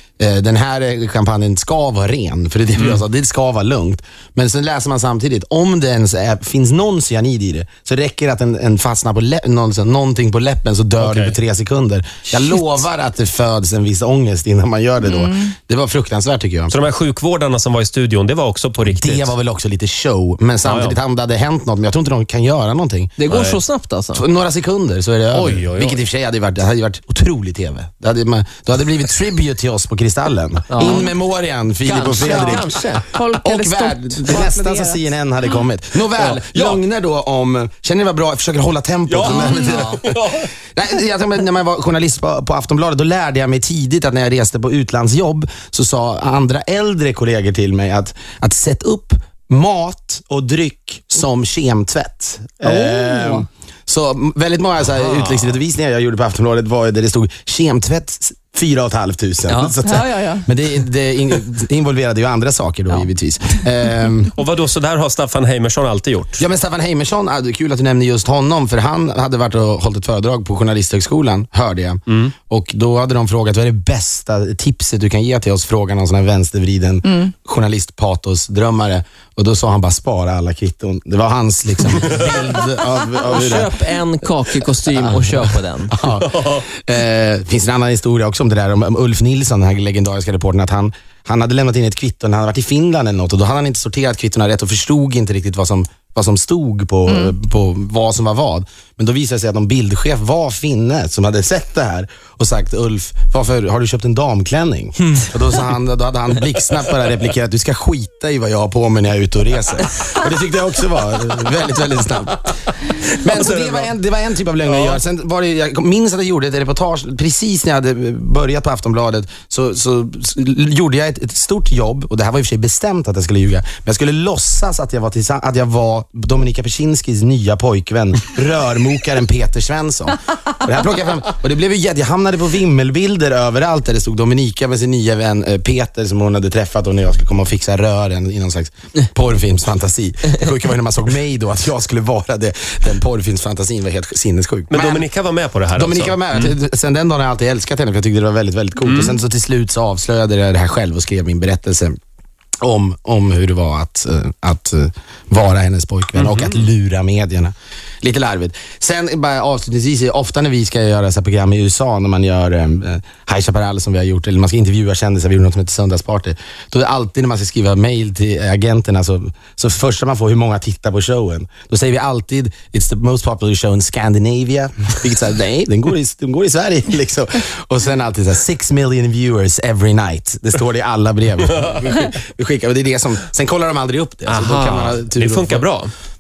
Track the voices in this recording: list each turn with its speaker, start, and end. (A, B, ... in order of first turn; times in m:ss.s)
0:00.2-0:16.7 A
0:02.8-0:03.0 B
0:11.0-0:11.4 B
0:15.0-0:15.5 C
0:16.7-0:19.3 B
0:18.8-0:23.2 A
0:20.6-0:21.0 B
0:23.2-0:24.2 D
0:23.3-0:23.6 B
0:24.1-0:32.8 A
0:25.3-0:26.0 B
0:30.7-0:31.1 D
0:31.8-0:33.1 D
0:33.1-0:35.0 C
0:33.3-0:40.2 A
0:36.2-0:36.8 B
0:39.1-0:40.5 B
0:39.2-0:39.8 C
0:40.7-1:04.3 A
0:52.6-0:53.4 C
0:55.0-0:55.6 B
0:59.5-0:59.8 D
0:59.8-1:00.5 C
1:04.4-1:06.4 B
1:06.4-1:23.7 A
1:23.2-1:26.0 D
1:24.9-1:52.5 A
1:26.2-1:26.6 B
1:37.1-1:37.3 C
1:52.5-1:53.9 B
1:53.2-2:25.1 A
1:54.6-1:55.0 B
2:24.7-2:26.5 B
2:25.8-2:32.0 A
2:28.8-2:29.2 B
2:32.6-3:05.7 A
2:36.2-2:36.6 B
3:04.3-3:05.9 B